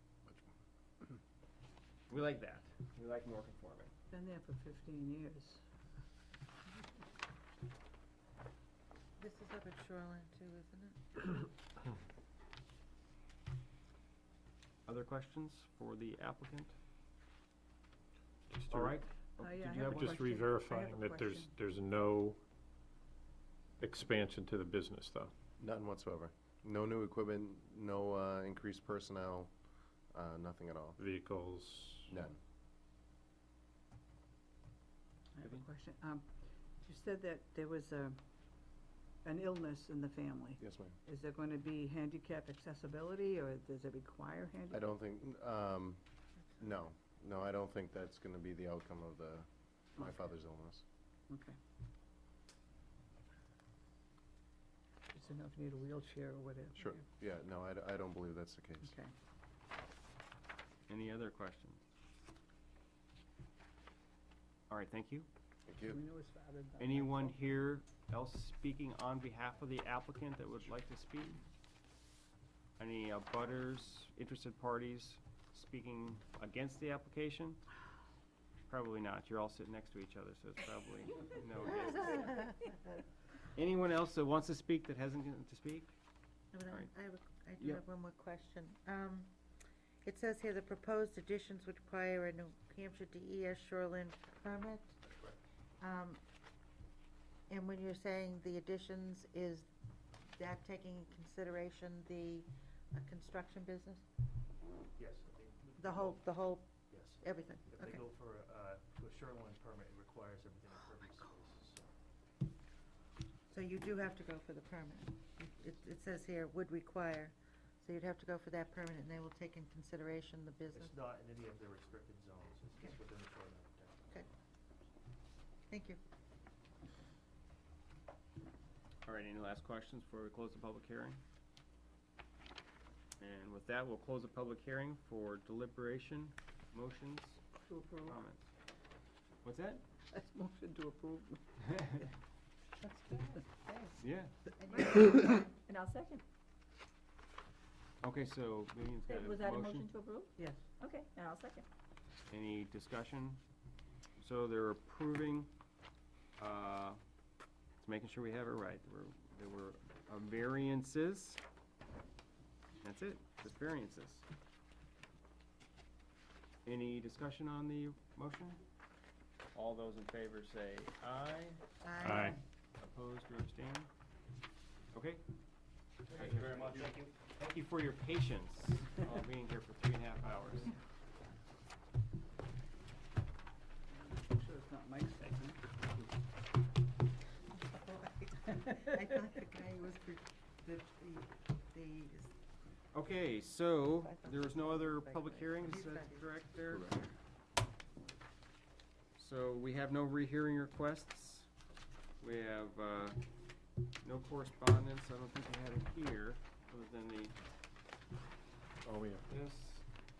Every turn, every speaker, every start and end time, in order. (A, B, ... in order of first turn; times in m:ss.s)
0:02.1-0:03.9 A
0:04.1-0:05.6 B
0:09.2-0:11.5 C
0:14.8-0:16.7 A
0:18.5-0:18.9 D
0:18.7-0:20.4 A
0:19.4-0:21.5 B
0:19.8-0:22.4 D
0:23.8-0:25.3 D
0:25.6-0:29.5 E
0:30.1-0:31.0 E
0:31.0-0:32.2 D
0:32.1-0:32.4 E
0:35.4-0:36.3 B
0:36.8-0:38.2 B
0:39.2-0:44.9 B
0:40.6-0:41.0 E
0:44.7-0:46.0 E
0:46.6-0:50.8 E
0:51.3-0:51.6 B
0:55.1-0:57.0 B
0:56.7-0:58.9 E
0:58.8-0:59.1 B
1:00.9-1:01.8 A
1:04.7-1:05.3 A
1:05.7-1:06.0 E
1:05.9-1:07.3 B
1:06.8-1:11.4 A
1:12.8-1:17.6 A
1:18.7-1:22.5 A
1:23.5-1:26.0 A
1:26.5-1:29.3 C
1:30.0-1:35.0 C
1:35.0-1:35.4 F
1:35.8-1:36.2 C
1:37.5-1:39.7 C
1:40.3-1:44.0 C
1:45.0-1:46.3 F
1:45.8-1:48.0 C
1:46.9-1:52.0 F
1:53.5-2:00.9 C
2:00.7-2:04.2 F
2:05.7-2:06.0 C
2:09.0-2:11.2 A
2:13.2-2:17.4 A
2:17.6-2:18.2 B
2:18.0-2:18.5 A
2:19.4-2:19.8 A
2:20.1-2:22.1 B
2:22.8-2:24.0 B
2:24.0-2:24.3 A
2:24.6-2:25.4 C
2:24.7-2:26.2 G
2:28.0-2:29.9 A
2:29.0-2:31.6 G
2:30.4-2:30.7 B
2:32.3-2:33.4 A
2:34.2-2:35.5 A
2:36.4-2:37.0 A
2:37.8-2:41.4 A
2:42.8-2:44.2 A
2:46.6-2:48.6 A
2:49.5-2:51.6 A
2:51.8-2:52.4 C
2:52.0-2:52.4 D
2:52.8-2:53.9 A
2:54.9-2:55.2 A
2:56.1-3:00.7 A
2:56.1-2:57.0 F
3:04.0-3:05.6 B
3:07.5-3:12.3 C
3:12.9-3:16.9 A
3:14.0-3:16.2 C
3:19.2-3:21.5 A
3:22.2-3:23.3 A
3:24.0-3:27.4 A
3:28.8-3:29.2 D
3:29.3-3:29.9 A